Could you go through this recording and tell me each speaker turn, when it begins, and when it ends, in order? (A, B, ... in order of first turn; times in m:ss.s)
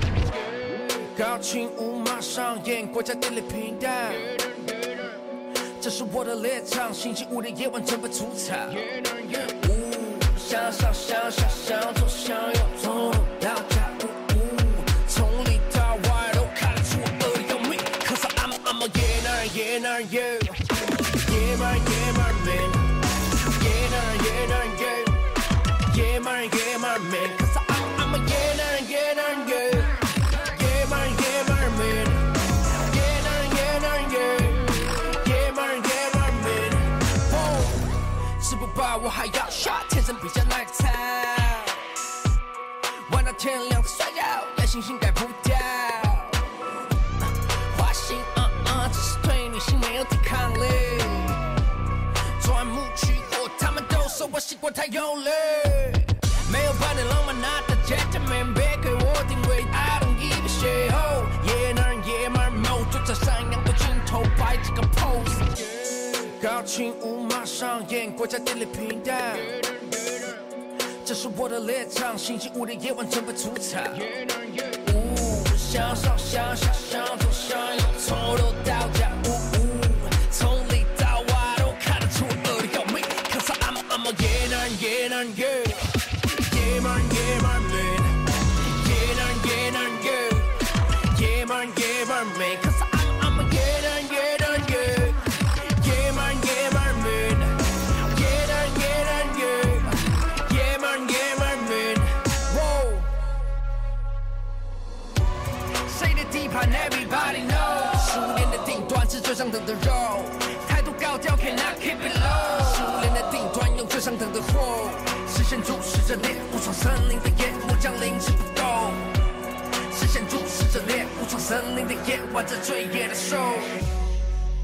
0:00.6-0:25.3 A
0:25.9-0:41.9 A
0:43.0-0:46.5 A
0:47.2-0:51.4 A
0:52.4-1:43.1 A
1:45.8-2:03.8 A